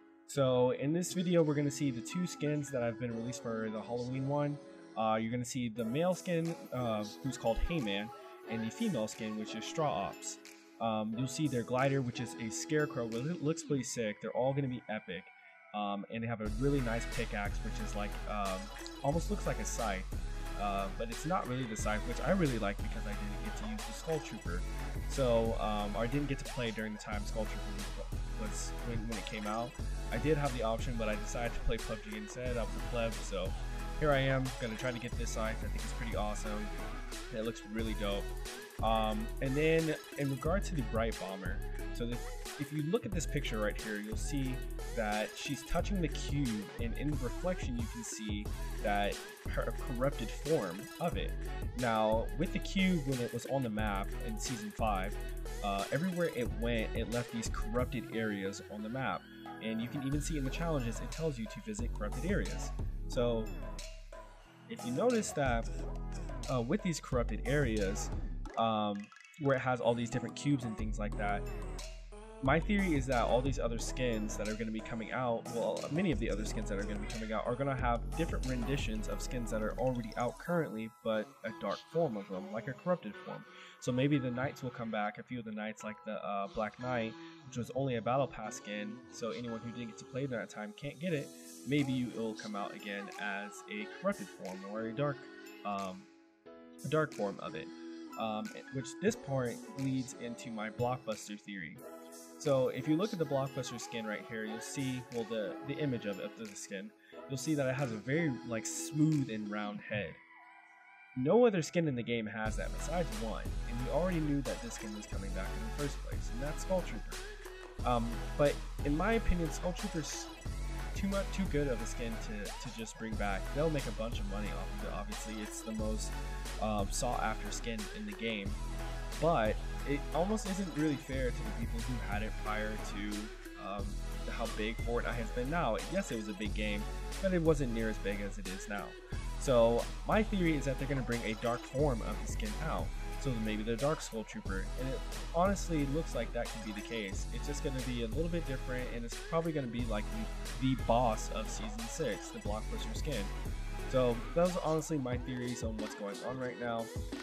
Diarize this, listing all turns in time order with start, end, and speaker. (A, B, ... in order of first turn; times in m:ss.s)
0:00.3-0:36.7 A
0:37.3-0:38.3 A
0:38.8-1:03.5 A
1:04.7-1:05.7 A
1:06.5-1:11.5 A
1:12.4-1:36.1 A
1:36.8-1:41.8 A
1:42.4-1:50.2 A
1:51.2-1:57.2 A
1:57.8-2:00.3 A
2:00.9-2:08.6 A
2:09.2-2:33.3 A
2:33.9-2:36.9 A